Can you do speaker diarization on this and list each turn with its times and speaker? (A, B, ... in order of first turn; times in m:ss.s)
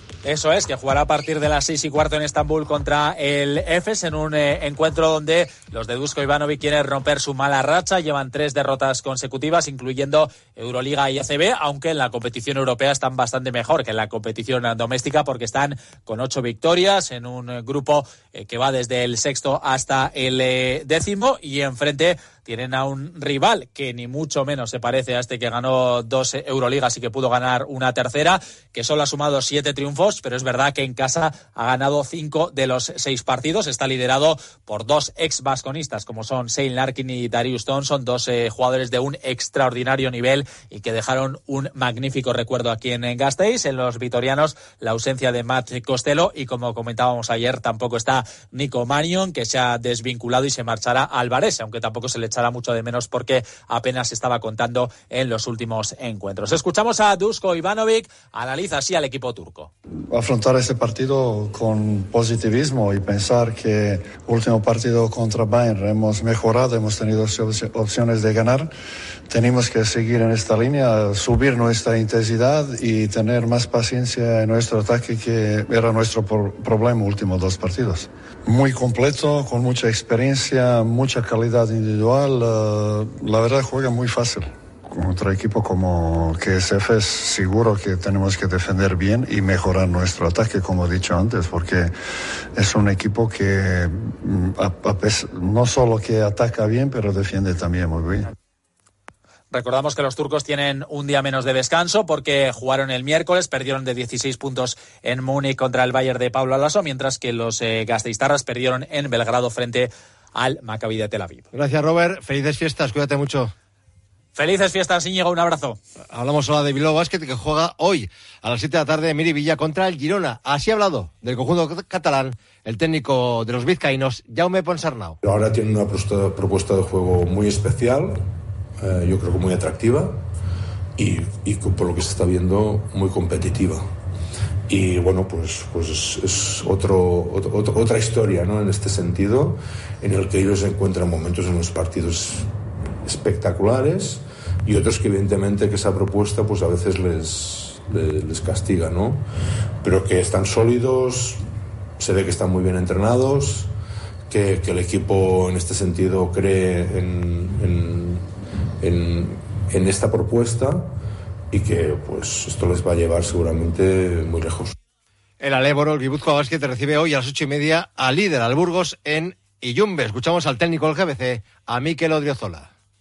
0:00.2-0:59.7 A
1:00.1-1:08.7 B
1:09.3-1:31.9 B
1:32.5-1:38.3 B
1:39.5-1:51.5 A
1:51.5-1:53.5 C
1:54.3-1:55.8 A
1:56.1-2:05.2 C
2:05.2-2:08.2 D
2:08.8-2:10.2 D
2:11.0-2:13.8 D
2:14.7-2:22.5 D
2:23.0-2:29.2 D
2:29.8-2:31.4 D
2:32.0-2:33.7 D
2:34.3-2:38.2 D
2:38.8-2:40.9 D
2:41.5-2:44.7 D
2:45.4-2:52.7 C